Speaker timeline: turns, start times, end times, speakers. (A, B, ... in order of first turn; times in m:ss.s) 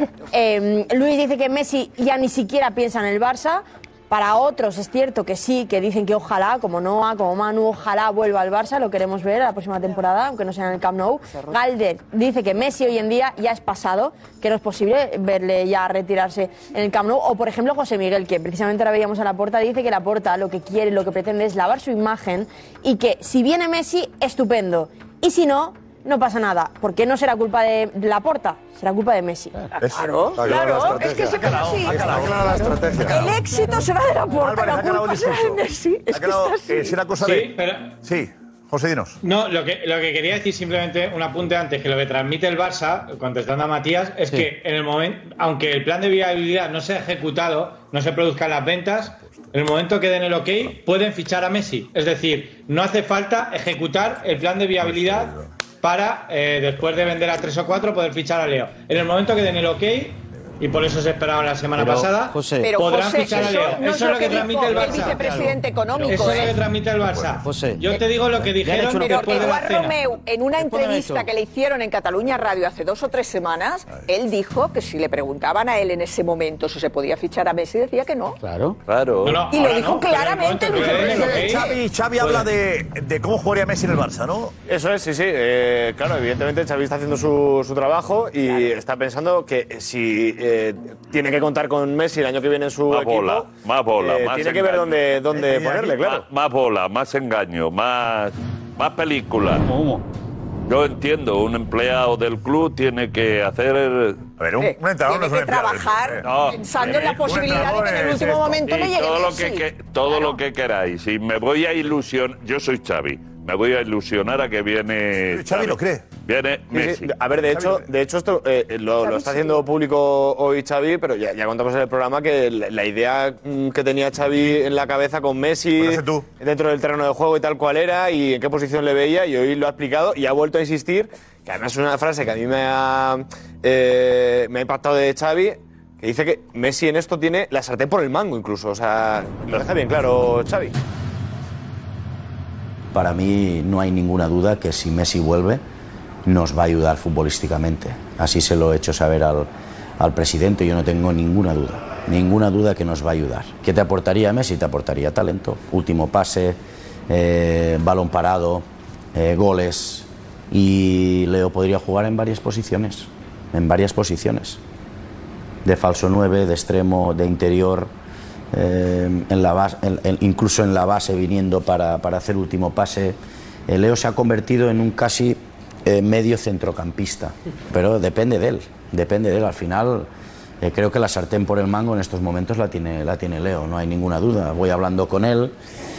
0:00.3-0:29.6 A
0:29.8-0:30.1 B
0:29.9-0:32.2 C
0:30.4-0:33.3 D
0:30.9-0:32.5 B
0:33.0-0:37.0 C
0:34.4-0:39.2 B
0:37.2-0:37.9 E
0:39.2-1:05.3 E
0:54.8-0:55.5 B
1:01.8-1:03.3 F
1:02.6-1:06.5 C
1:05.1-1:05.6 F
1:05.9-1:10.0 E
1:07.0-1:07.4 B
1:07.4-1:09.5 F
1:09.0-1:18.4 C
1:10.6-1:11.3 F
1:18.4-1:18.8 F
1:18.9-1:19.4 G
1:19.2-1:22.5 E
1:19.5-1:21.7 C
1:21.3-1:24.5 B
1:24.7-1:36.2 H
1:32.9-1:35.0 G
1:35.4-1:35.6 B
1:36.0-1:39.6 G
1:39.6-1:40.0 F
1:40.7-1:44.3 G
1:44.4-1:46.3 B
1:44.6-1:50.3 C
1:46.2-1:47.2 G
1:46.8-1:48.6 B
1:48.6-1:57.0 G
1:55.3-1:56.1 B
1:56.7-2:20.7 H
1:57.5-1:57.8 B
2:05.8-2:06.3 B
2:22.9-2:25.6 I
2:26.2-2:36.6 I
2:37.1-2:44.6 I
2:45.6-2:47.9 I
2:48.5-2:53.2 I
2:53.7-3:00.1 I
3:00.6-3:05.5 I